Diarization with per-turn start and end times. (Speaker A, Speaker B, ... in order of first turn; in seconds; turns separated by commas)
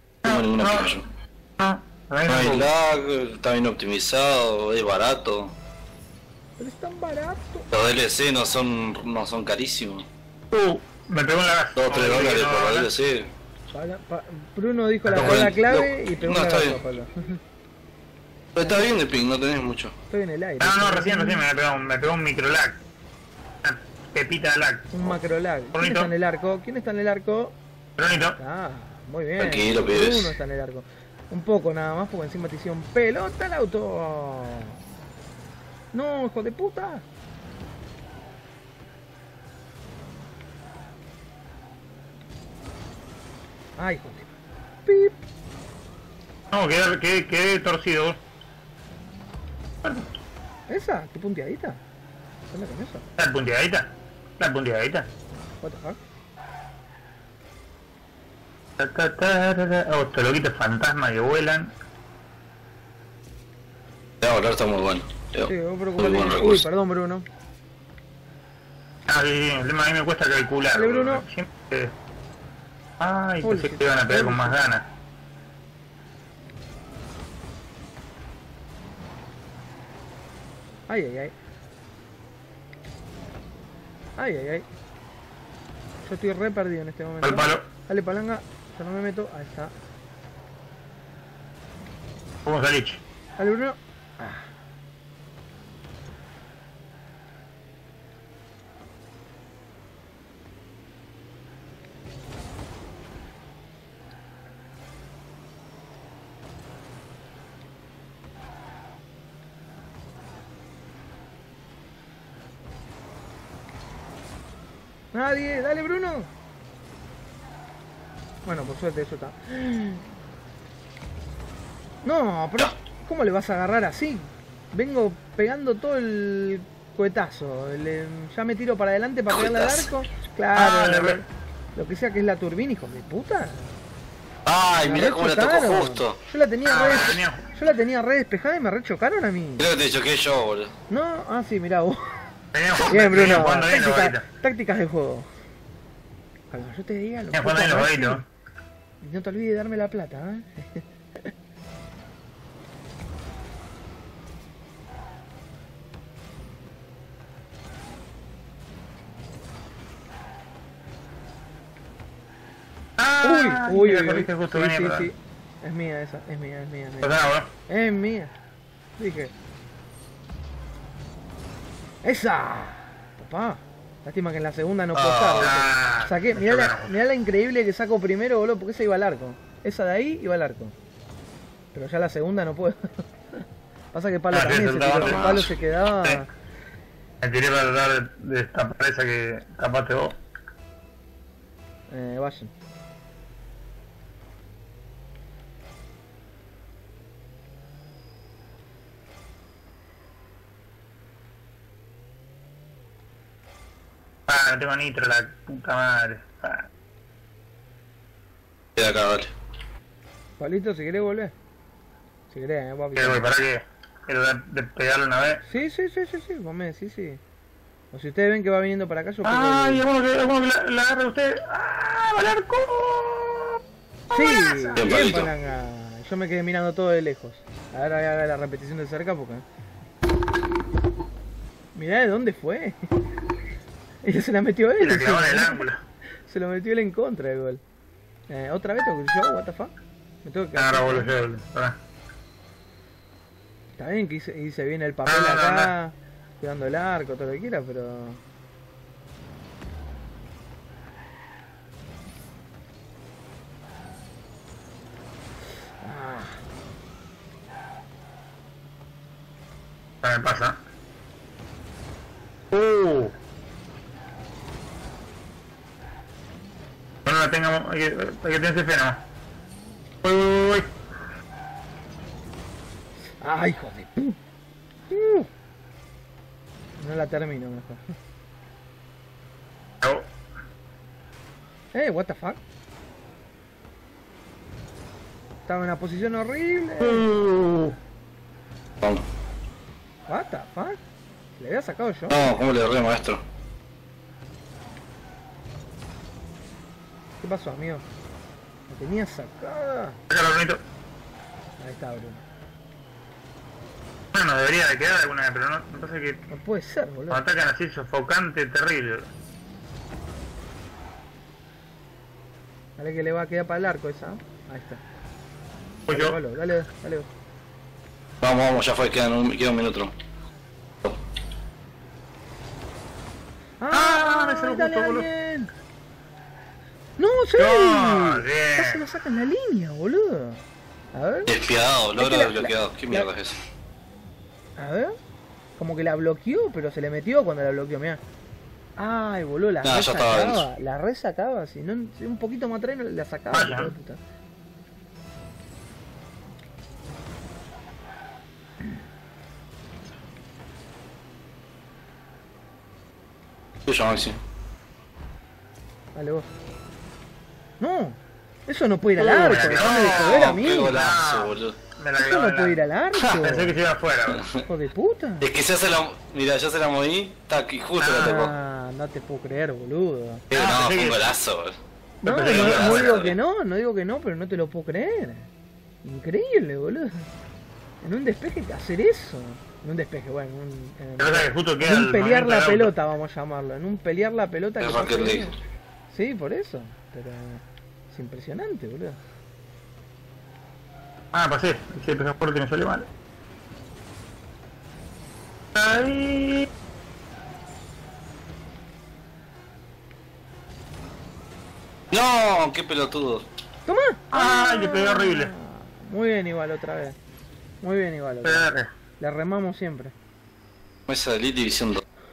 Speaker A: 0.2-1.0, Speaker B: 0.2-1.1, Speaker A: 1.6-2.7, Speaker B: 2.3-5.5, Speaker C: 6.6-7.7, Speaker B: 7.7-10.1, Speaker A: 10.5-12.9, Speaker B: 11.8-13.3, Speaker C: 13.7-17.4, Speaker A: 15.1-15.5, Speaker B: 15.1-16.8, Speaker B: 18.6-19.9, Speaker C: 20.1-21.4, Speaker A: 20.6-22.8, Speaker A: 23.6-24.9, Speaker C: 24.9-27.6, Speaker A: 25.7-26.1, Speaker A: 28.0-28.4, Speaker C: 28.1-34.8, Speaker B: 29.4-30.3, Speaker C: 35.9-37.0, Speaker C: 43.8-44.3, Speaker C: 44.9-45.2, Speaker A: 46.5-48.2, Speaker A: 49.8-50.1, Speaker C: 50.7-51.8, Speaker C: 52.5-53.1, Speaker A: 53.2-55.1, Speaker C: 55.6-56.0, Speaker A: 58.8-61.7, Speaker B: 64.2-66.6, Speaker C: 65.4-67.3, Speaker A: 69.1-71.9, Speaker C: 70.7-71.2, Speaker A: 73.0-74.9, Speaker C: 73.4-74.6, Speaker C: 80.9-81.3, Speaker C: 84.2-84.7, Speaker C: 86.0-89.7, Speaker A: 87.2-87.7, Speaker A: 92.5-93.0, Speaker C: 93.4-94.5, Speaker C: 115.1-116.3, Speaker C: 118.5-120.1, Speaker C: 122.0-133.8, Speaker B: 129.3-129.9, Speaker A: 130.5-131.2, Speaker B: 134.5-136.2, Speaker C: 134.8-139.7, Speaker A: 136.7-137.6, Speaker B: 139.6-140.7, Speaker C: 140.9-142.2, Speaker A: 142.5-144.2, Speaker C: 142.8-145.3, Speaker C: 146.5-148.2, Speaker A: 147.3-148.2, Speaker C: 149.0-151.3, Speaker A: 163.0-165.1, Speaker C: 163.2-168.3, Speaker A: 167.0-167.5, Speaker C: 169.0-169.3, Speaker C: 172.0-180.8, Speaker B: 174.9-175.5, Speaker A: 175.4-177.0, Speaker C: 181.7-183.4, Speaker C: 183.9-186.3, Speaker A: 184.3-185.4, Speaker B: 185.0-185.5, Speaker A: 187.2-190.2, Speaker C: 191.9-192.5, Speaker A: 204.3-206.7, Speaker B: 208.8-209.3, Speaker C: 210.4-211.3, Speaker C: 212.3-213.3, Speaker A: 213.0-215.4, Speaker C: 215.4-217.2, Speaker C: 217.9-219.9, Speaker A: 219.2-223.6, Speaker C: 224.1-229.4, Speaker A: 224.1-225.0, Speaker B: 224.8-225.3, Speaker C: 231.8-232.9, Speaker C: 234.0-235.7, Speaker A: 234.8-235.8, Speaker C: 236.3-237.6, Speaker C: 238.3-239.7, Speaker C: 240.2-241.1, Speaker A: 240.6-241.8, Speaker C: 243.8-248.2, Speaker A: 245.1-245.7, Speaker C: 255.8-256.4, Speaker A: 260.0-260.6, Speaker A: 262.5-263.1, Speaker A: 267.1-269.0, Speaker A: 270.0-270.7, Speaker C: 273.2-274.2, Speaker C: 274.9-275.3, Speaker C: 276.8-277.8, Speaker A: 279.8-280.1, Speaker C: 281.7-282.4, Speaker C: 285.5-287.1, Speaker A: 286.8-287.8, Speaker C: 290.1-290.8, Speaker C: 291.4-292.4, Speaker B: 292.1-293.2, Speaker C: 297.2-297.9, Speaker C: 298.7-300.0, Speaker A: 300.1-300.6, Speaker C: 301.6-302.2, Speaker A: 304.1-306.2, Speaker C: 306.3-307.2, Speaker A: 307.1-309.1, Speaker C: 312.8-314.8, Speaker A: 315.9-316.2, Speaker C: 315.9-317.1, Speaker B: 318.2-319.9, Speaker C: 323.6-325.5, Speaker A: 323.7-325.1, Speaker C: 327.0-331.3, Speaker A: 327.4-328.8, Speaker B: 331.3-333.3, Speaker C: 332.0-333.1, Speaker C: 334.6-334.9, Speaker C: 335.6-338.0, Speaker C: 338.8-344.0, Speaker B: 339.6-340.5, Speaker A: 343.3-343.7, Speaker B: 353.7-354.2, Speaker C: 355.9-356.3, Speaker C: 357.6-360.8, Speaker A: 359.0-364.3, Speaker B: 359.5-361.6, Speaker C: 362.0-363.6, Speaker C: 364.4-365.3, Speaker B: 365.2-368.3, Speaker A: 367.8-368.2, Speaker C: 368.0-370.2, Speaker B: 370.3-371.6, Speaker A: 370.3-371.0, Speaker C: 372.0-375.3, Speaker A: 372.0-372.9, Speaker B: 372.3-373.1, Speaker C: 375.8-377.1, Speaker C: 377.8-385.4, Speaker A: 381.0-382.7, Speaker B: 384.6-385.3, Speaker C: 385.9-389.0, Speaker A: 391.1-392.9, Speaker A: 395.5-396.5, Speaker B: 401.9-403.2, Speaker C: 403.7-407.0, Speaker A: 404.1-405.3, Speaker C: 407.6-409.9, Speaker A: 408.2-408.7, Speaker B: 410.9-411.8